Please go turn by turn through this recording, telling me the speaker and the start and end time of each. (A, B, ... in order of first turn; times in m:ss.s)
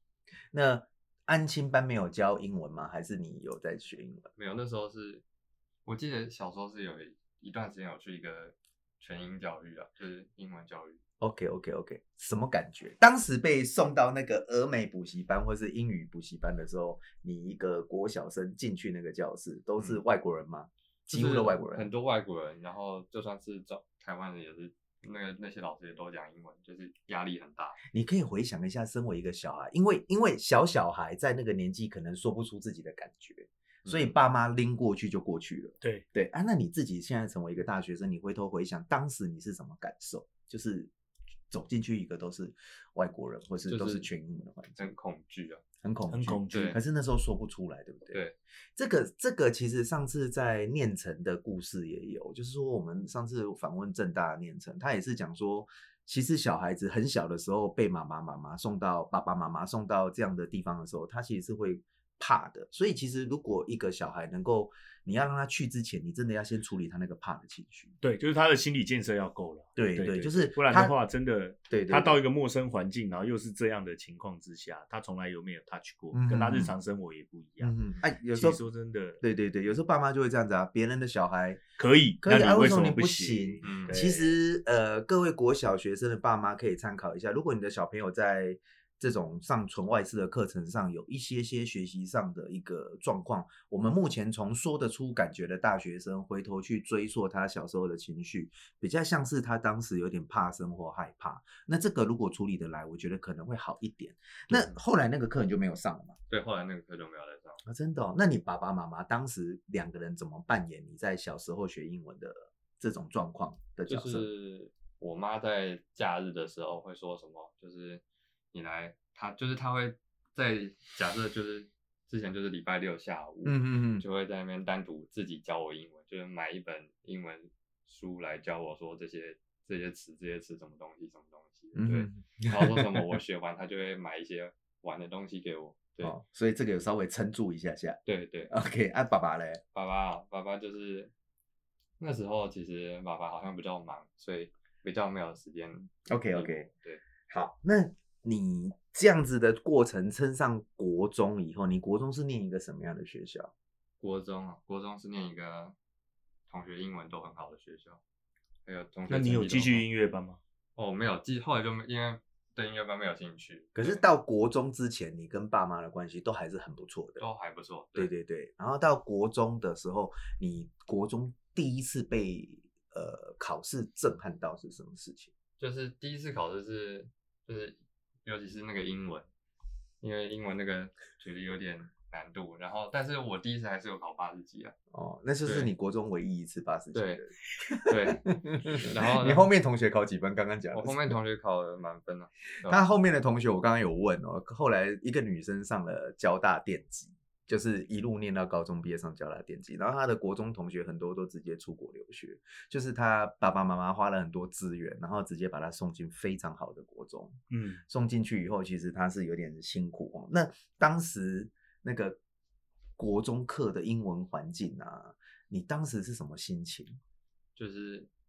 0:00.5-0:04.3 A
0:04.4-0:05.2 B
0:05.8-0:11.0 B
0:11.2-0:21.9 A
0:21.1-0:27.8 B
0:27.9-0:40.9 A
0:33.8-0:34.2 B
0:41.5-0:44.9 A
0:43.7-0:44.1 B
0:44.8-0:45.6 B
0:45.8-0:48.2 A
0:46.1-0:46.8 C
0:46.5-0:46.8 B
0:48.1-0:48.4 B
0:48.8-1:08.0 A
1:08.0-1:17.8 C
1:09.8-1:10.9 A
1:11.7-1:12.2 A
1:16.1-1:16.8 A
1:17.6-1:18.6 A
1:18.3-1:19.2 C
1:19.2-1:21.6 A
1:21.8-1:24.4 C
1:22.2-1:46.2 A
1:23.6-1:24.0 B
1:44.5-1:44.8 B
1:46.3-1:47.6 B
1:47.6-1:54.3 A
1:53.9-2:16.1 B
2:03.4-2:04.0 A
2:11.8-2:13.2 A
2:16.0-2:19.6 A
2:18.0-2:18.5 B
2:19.7-2:21.1 B
2:22.0-2:27.0 B
2:26.1-2:26.7 A
2:27.3-2:33.5 A
2:34.0-2:35.8 B
2:36.5-2:38.0 B
2:38.7-2:39.9 B
2:39.1-2:40.4 C
2:40.8-2:44.0 B
2:43.8-2:47.2 A
2:47.2-2:48.1 B
2:48.0-2:55.3 A
2:55.6-2:59.3 B
3:00.0-3:04.8 B
3:04.9-3:11.2 A
3:05.4-3:05.7 B
3:06.9-3:07.2 B
3:07.9-3:09.5 B
3:10.7-3:12.8 B
3:12.7-3:32.2 A
3:27.5-3:27.8 C
3:33.0-3:37.0 A
3:37.6-3:38.1 B